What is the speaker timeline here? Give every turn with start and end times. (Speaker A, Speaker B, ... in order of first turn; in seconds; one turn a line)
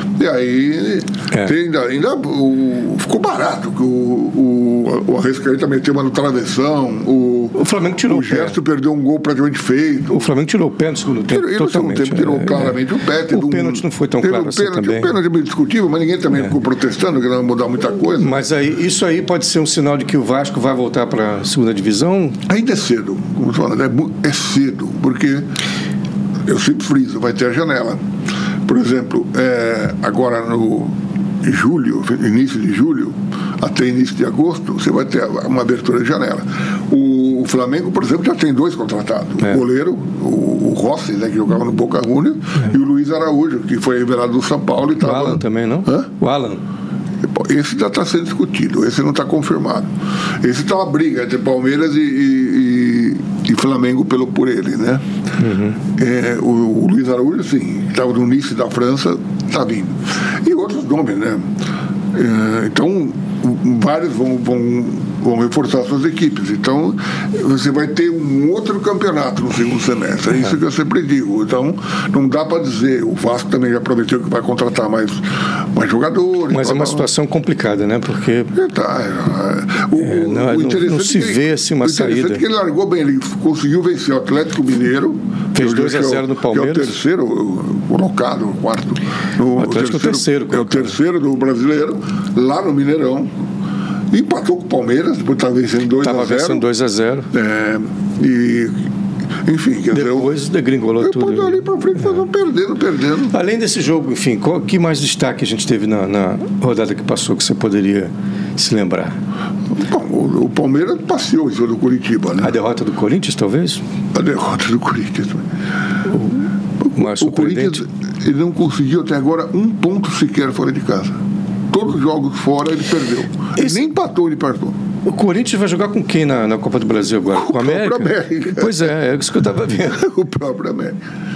Speaker A: 0.2-10.3
Speaker B: 7.5-8.6
Speaker B: 10.1-15.1
Speaker A: 11.3-18.4
Speaker B: 18.2-22.4
Speaker A: 22.5-25.5
Speaker A: 26.4-28.0
Speaker A: 28.7-46.1
Speaker B: 45.0-46.6
Speaker A: 47.2-55.0
Speaker B: 55.4-55.8
Speaker A: 56.0-61.5
Speaker A: 62.1-77.1
Speaker B: 76.5-78.5
Speaker A: 78.5-93.3
Speaker B: 80.0-82.4
Speaker B: 85.5-87.0
Speaker B: 89.5-91.0
Speaker A: 94.1-96.7
Speaker B: 96.0-97.3
Speaker A: 97.3-98.9
Speaker A: 99.4-100.3
Speaker B: 99.9-102.2
Speaker A: 101.0-103.3
Speaker B: 103.3-109.2
Speaker A: 109.7-112.5
Speaker B: 112.4-113.8
Speaker A: 114.1-115.5
Speaker B: 116.1-117.8
Speaker A: 116.8-121.2
Speaker A: 121.7-124.8
Speaker B: 125.0-130.1
Speaker A: 127.3-128.9
Speaker A: 129.9-131.0